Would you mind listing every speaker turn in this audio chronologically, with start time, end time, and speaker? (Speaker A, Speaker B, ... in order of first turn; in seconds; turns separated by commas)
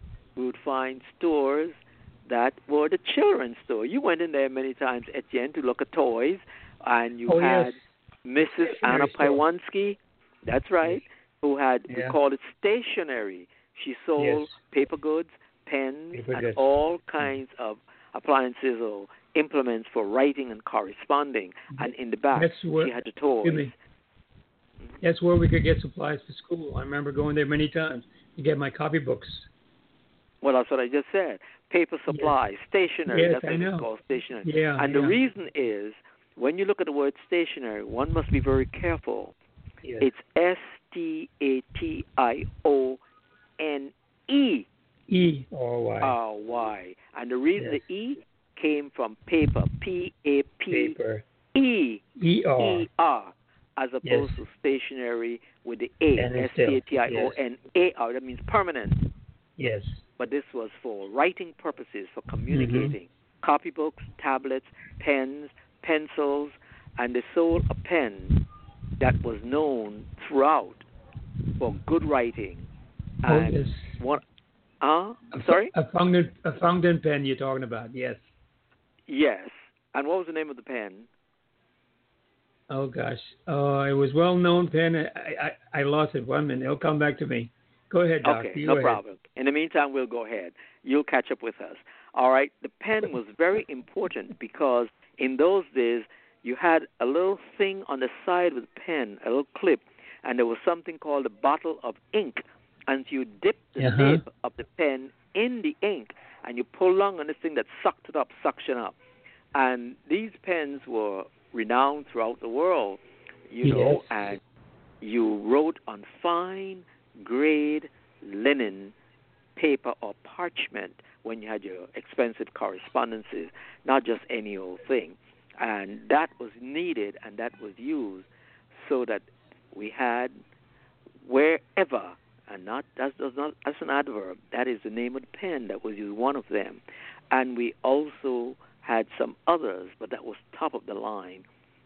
Speaker A: 0.4-23.7, Speaker B: 7.3-7.8, Speaker B: 8.4-9.4, Speaker B: 11.9-12.2, Speaker B: 14.2-14.5, Speaker B: 16.1-16.6, Speaker B: 21.8-23.7, Speaker B: 25.0-29.5, Speaker A: 30.4-39.3, Speaker B: 33.1-33.9, Speaker B: 34.5-35.2, Speaker A: 40.0-43.0, Speaker A: 43.6-44.7, Speaker B: 45.1-46.1, Speaker A: 46.0-51.0, Speaker B: 47.6-47.8, Speaker B: 50.7-51.2, Speaker A: 51.5-59.1, Speaker B: 52.2-52.9, Speaker B: 54.0-54.4, Speaker B: 56.2-57.4, Speaker B: 59.6-60.0, Speaker A: 60.2-68.4, Speaker B: 62.5-62.9, Speaker A: 69.0-70.9, Speaker A: 71.6-72.7, Speaker A: 73.2-74.2, Speaker B: 73.3-74.0, Speaker A: 74.8-75.7, Speaker B: 75.3-78.2, Speaker A: 79.1-81.1, Speaker B: 82.7-89.0, Speaker A: 88.2-109.0, Speaker B: 103.8-104.2, Speaker A: 109.5-114.4, Speaker B: 113.6-114.2, Speaker A: 115.0-118.9, Speaker A: 119.6-130.4, Speaker A: 131.2-141.4